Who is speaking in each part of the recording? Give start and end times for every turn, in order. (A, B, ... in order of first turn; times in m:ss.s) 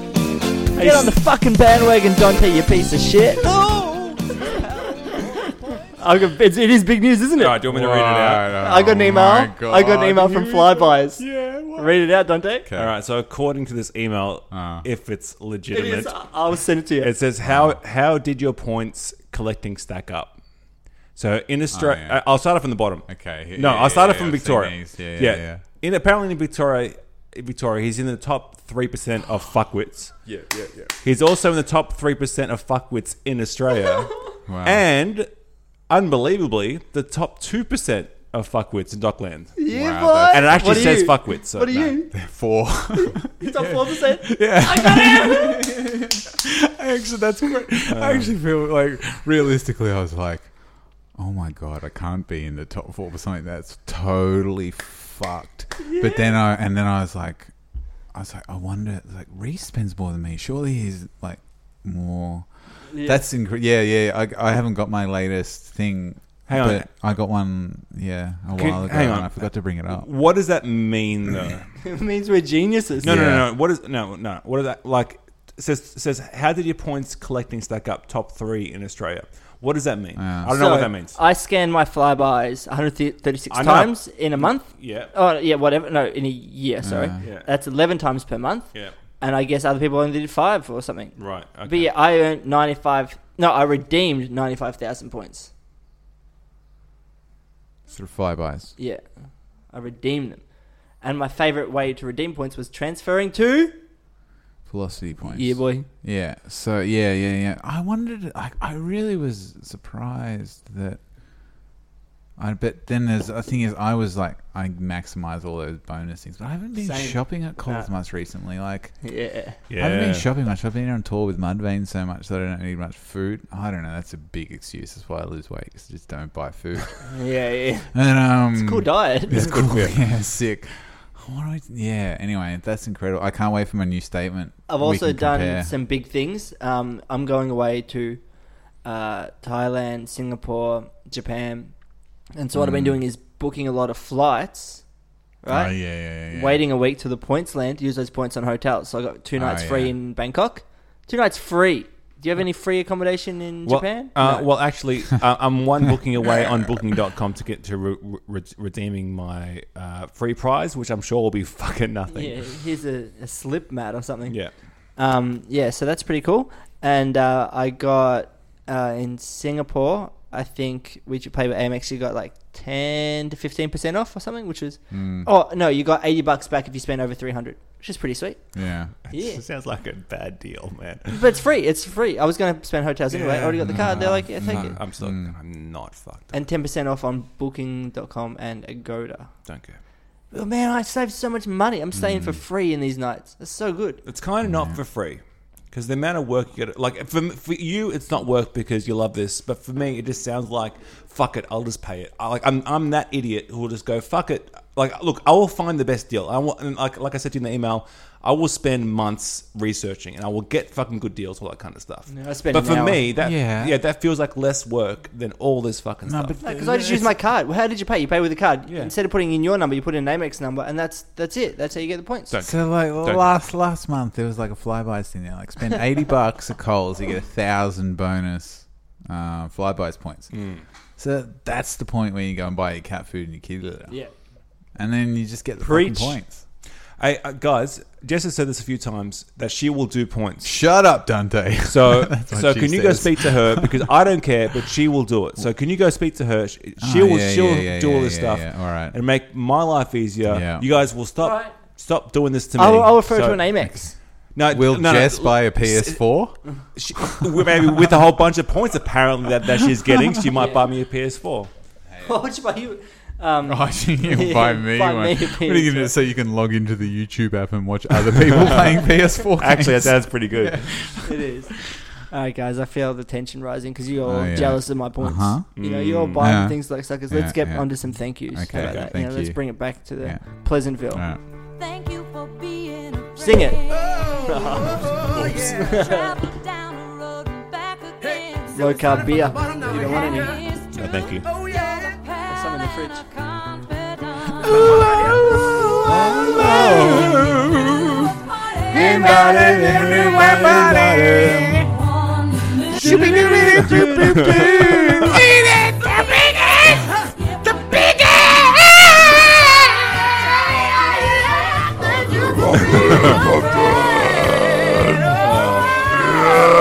0:00.7-0:03.5 A
0:00.8-0:01.1 B
0:03.4-0:04.5 B
0:04.3-0:07.6 A
0:07.4-0:08.5 B
0:07.6-0:10.7 C
0:08.5-0:11.2 A
0:10.8-0:11.9 B
0:11.8-0:12.6 A
0:12.6-0:12.9 C
0:12.8-0:16.2 B
0:14.5-0:14.8 C
0:15.7-0:17.1 A
0:17.0-0:20.4 B
0:17.4-0:17.8 C
0:21.1-0:30.2 B
0:21.7-0:22.2 C
0:23.1-0:25.6 C
0:30.3-0:30.9 C
0:31.0-0:35.3 B
0:34.5-0:34.8 C
0:35.9-0:39.6 B
0:39.6-0:42.2 A
0:39.7-0:41.1 C
0:40.3-0:42.0 B
0:42.1-0:50.5 C
0:42.9-0:45.7 A
0:47.9-0:48.3 B
0:51.1-0:57.5 C
0:55.8-0:56.2 A
0:58.1-1:10.1 C
1:02.9-1:03.2 A
1:06.5-1:06.9 B
1:08.5-1:11.7 B
1:11.8-1:13.1 A
1:13.0-1:13.5 C
1:13.0-1:21.2 B
1:20.2-1:20.5 C
1:20.5-1:35.5 A
1:23.5-1:25.1 B
1:26.8-1:27.2 C
1:27.2-1:27.5 B
1:31.2-1:31.9 B
1:37.9-1:38.7 C
1:38.8-1:39.0 A
1:39.7-1:43.8 A
1:44.6-1:51.0 C
1:45.3-1:45.9 A
1:52.4-1:59.0 C
1:56.8-1:57.9 A
1:59.0-1:59.6 A
1:59.7-2:00.3 B
1:59.8-2:07.2 C
2:07.1-2:07.9 A
2:07.9-2:15.7 C
2:08.4-2:09.6 A
2:09.3-2:10.0 B
2:14.7-2:18.2 A
2:18.8-2:21.7 A
2:22.4-2:24.8 A
2:22.5-2:23.0 C
2:25.4-2:34.5 A
2:25.5-2:26.6 C
2:29.4-2:30.0 C
2:33.6-2:42.5 B
2:42.1-2:58.5 A
2:54.9-2:55.3 C
2:58.5-2:58.9 C
2:59.0-3:01.2 B
2:59.1-2:59.4 A
3:01.1-3:04.8 A
3:03.1-3:06.4 B
3:03.6-3:05.3 C
3:06.3-3:09.3 A
3:09.4-3:09.8 B
3:10.3-3:14.0 A
3:11.9-3:12.4 C
3:14.0-3:36.4 B
3:14.4-3:14.8 C
3:32.1-3:33.0 A
3:33.2-3:33.8 C
3:36.1-3:37.1 C
3:36.4-3:42.3 A
3:42.3-3:43.3 B
3:42.4-3:50.3 C
3:50.3-3:50.6 B
3:51.0-3:54.0 C
3:54.8-3:56.4 C
3:55.6-3:56.2 A
3:57.0-4:00.6 B
4:00.4-4:03.9 C
4:01.6-4:13.5 B
4:06.8-4:09.0 C
4:10.2-4:10.7 C
4:11.2-4:11.5 A
4:12.6-4:13.9 A
4:14.3-4:16.0 B
4:14.4-4:16.4 C
4:16.7-4:21.5 B
4:20.3-4:20.7 A
4:21.9-4:22.2 C
4:22.0-4:25.9 A
4:23.4-4:31.6 C
4:28.3-4:30.7 B
4:31.0-4:41.1 A
4:34.0-4:35.5 C
4:35.6-4:36.2 B
4:36.2-4:41.2 C
4:38.5-4:38.9 B
4:41.4-4:55.0 D
4:43.2-4:44.9 A
4:45.5-4:46.1 A
4:48.5-4:50.3 A
4:50.7-4:51.3 B
4:52.3-4:53.0 A
4:54.6-4:58.1 B
4:54.8-4:55.2 A
4:55.8-4:57.2 A
4:56.2-4:56.8 D
4:58.1-5:00.3 D
4:58.7-5:00.8 A
4:58.8-5:01.6 B
4:59.8-5:00.9 C
5:01.0-5:03.6 D
5:02.8-5:05.2 A
5:02.8-5:05.2 B
5:05.9-5:08.8 D
5:09.9-5:14.2 D
5:15.2-5:15.9 B